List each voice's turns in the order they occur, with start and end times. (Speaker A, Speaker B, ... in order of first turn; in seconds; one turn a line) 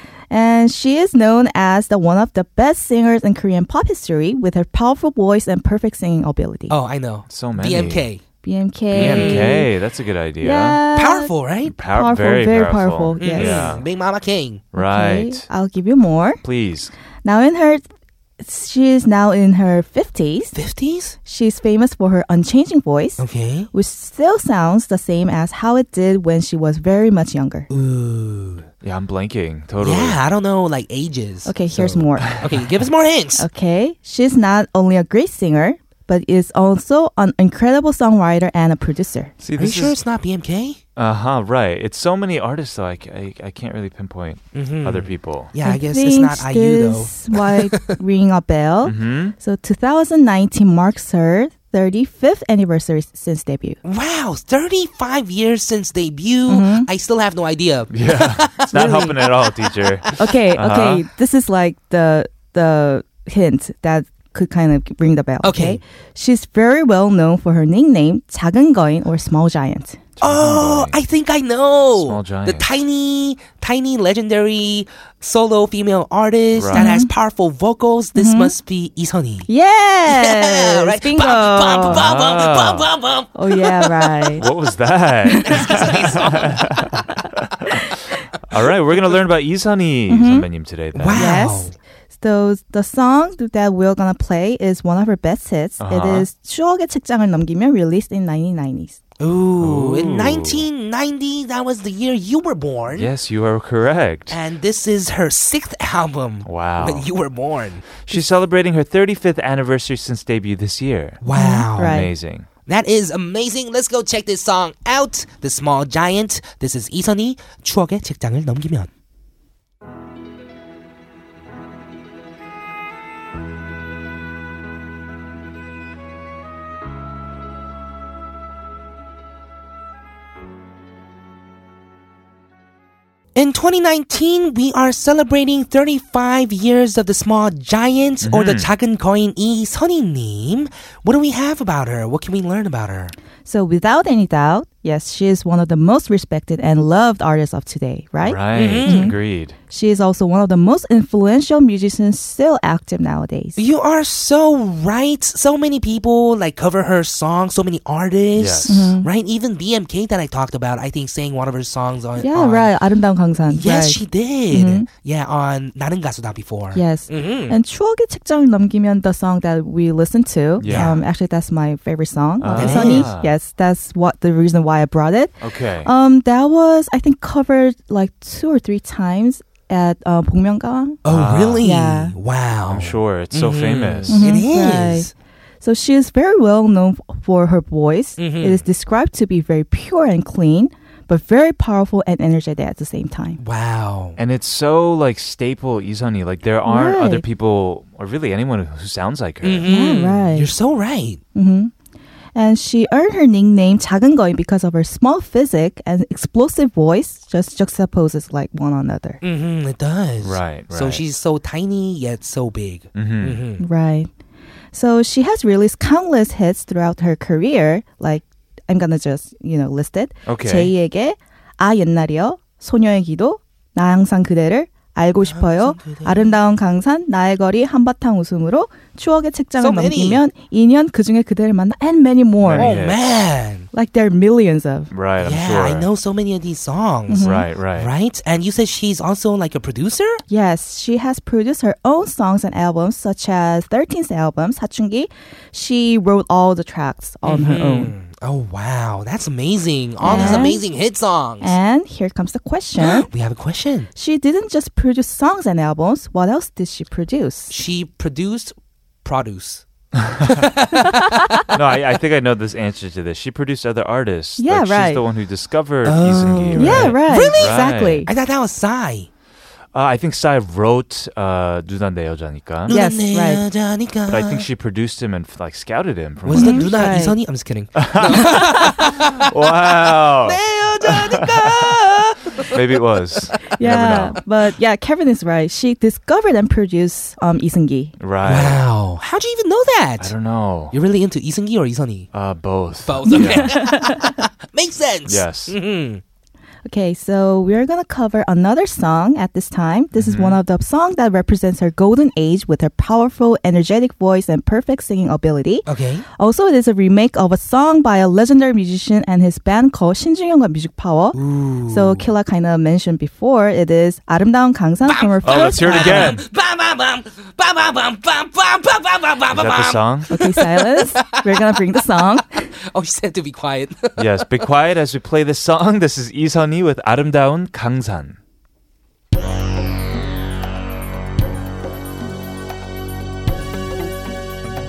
Speaker A: 0.3-6.7
Speaker B: 6.7-8.2
Speaker C: 7.3-8.0
Speaker A: 8.4-9.7
Speaker C: 8.9-10.8
Speaker B: 8.9-9.5
Speaker A: 10.4-13.7
Speaker B: 10.9-11.7
Speaker C: 11.6-13.8
Speaker B: 13.2-14.6
Speaker C: 14.7-15.4
Speaker A: 14.8-16.4
Speaker C: 16.4-16.9
Speaker A: 17.2-17.8
Speaker A: 18.4-20.5
Speaker B: 20.5-21.1
Speaker A: 21.2-27.7
Speaker B: 23.2-23.7
Speaker B: 27.7-28.7
Speaker C: 28.8-30.2
Speaker B: 29.8-33.4
Speaker A: 31.4-32.3
Speaker C: 32.2-32.9
Speaker A: 33.4-39.3
Speaker C: 39.4-40.0
Speaker B: 39.6-40.8
Speaker C: 41.0-45.5
Speaker B: 44.5-47.9
Speaker A: 45.6-53.8
Speaker C: 48.8-49.3
Speaker B: 53.8-60.1
Speaker A: 56.5-56.9
Speaker C: 57.9-61.0
Speaker A: 58.7-59.1
Speaker A: 60.2-70.0
Speaker B: 65.4-65.8
Speaker C: 70.2-71.0
Speaker B: 70.2-79.5
Speaker C: 72.0-72.7
Speaker C: 76.5-76.9
Speaker A: 76.7-77.1
Speaker A: 78.2-78.5
Speaker A: 79.5-82.0
Speaker B: 80.0-84.4
Speaker C: 81.9-82.9
Speaker A: 83.3-84.4
Speaker C: 84.3-87.7
Speaker A: 85.3-85.8
Speaker B: 85.4-86.7
Speaker C: 88.5-91.3
Speaker A: 90.1-90.5
Speaker B: 90.9-91.7
Speaker A: 91.1-99.0
Speaker C: 95.8-96.3
Speaker B: 99.2-103.1
Speaker C: 99.6-100.7
Speaker C: 102.9-104.4
Speaker B: 104.3-108.0
Speaker C: 106.4-107.1
Speaker C: 108.0-111.2
Speaker B: 111.2-112.0
Speaker A: 111.3-112.1
Speaker C: 111.8-112.5
Speaker B: 112.7-118.9
Speaker B: 133.3-143.1
Speaker C: 138.2-138.7
Speaker A: 143.4-149.1
Speaker C: 148.2-149.6
Speaker B: 148.5-149.1
Speaker A: 149.7-153.6
Speaker B: 153.6-162.7
Speaker C: 158.3-158.9
Speaker A: 158.7-159.1
Speaker A: 162.2-164.0
Speaker B: 163.5-167.6
Speaker A: 164.5-164.9
Speaker A: 166.7-175.3
Speaker C: 170.6-171.0
Speaker B: 170.6-171.0
Speaker C: 172.4-173.3
Speaker B: 172.5-173.1
Speaker C: 175.4-175.9
Speaker A: 175.8-181.0
Speaker B: 181.0-185.1
Speaker C: 181.1-181.7
Speaker A: 181.6-182.1
Speaker C: 182.7-184.4
Speaker A: 184.1-185.1
Speaker A: 185.6-193.4
Speaker B: 188.2-188.6
Speaker B: 193.4-194.2
Speaker C: 194.2-199.7
Speaker A: 196.6-197.2
Speaker B: 199.4-201.2
Speaker A: 199.7-200.5
Speaker A: 201.3-201.7
Speaker A: 202.3-209.2
Speaker B: 209.2-213.6
Speaker C: 210.2-211.0
Speaker C: 212.9-213.4
Speaker A: 213.6-214.1
Speaker A: 214.7-232.7
Speaker C: 220.2-220.7
Speaker B: 225.2-226.4
Speaker B: 229.6-230.2
Speaker C: 232.4-233.1
Speaker B: 232.6-233.7
Speaker A: 233.7-234.9
Speaker C: 234.9-235.9
Speaker B: 235.2-240.2
Speaker A: 237.1-237.4
Speaker C: 237.1-237.9
Speaker A: 240.3-247.9
Speaker B: 247.2-251.5
Speaker A: 250.0-250.6
Speaker C: 250.1-250.5
Speaker A: 251.4-253.1
Speaker B: 252.8-253.9
Speaker A: 253.9-257.5
Speaker B: 257.5-259.6
Speaker C: 260.0-260.4
Speaker B: 260.2-261.3
Speaker C: 261.5-268.1
Speaker A: 264.4-265.0
Speaker B: 265.8-269.1
Speaker A: 266.6-268.1
Speaker C: 269.7-272.8
Speaker B: 272.7-274.4
Speaker A: 272.7-273.4
Speaker C: 274.1-276.9
Speaker B: 276.2-283.2
Speaker A: 276.3-277.1
Speaker C: 277.8-281.7
Speaker C: 282.5-284.2
Speaker A: 283.6-287.9
Speaker C: 288.0-288.6
Speaker B: 288.2-290.1
Speaker C: 290.0-290.7
Speaker B: 290.7-292.1
Speaker C: 292.1-293.6
Speaker B: 292.8-296.0
Speaker A: 293.1-294.2
Speaker C: 295.1-295.6
Speaker A: 296.6-305.6
Speaker C: 299.9-300.4
Speaker B: 305.6-306.0
Speaker A: 306.1-311.2
Speaker B: 311.1-312.1
Speaker A: 311.7-316.2
Speaker B: 314.9-321.6
Speaker C: 315.2-316.2
Speaker C: 319.3-320.1
Speaker A: 320.1-322.4
Speaker B: 322.7-324.3
Speaker C: 324.0-328.2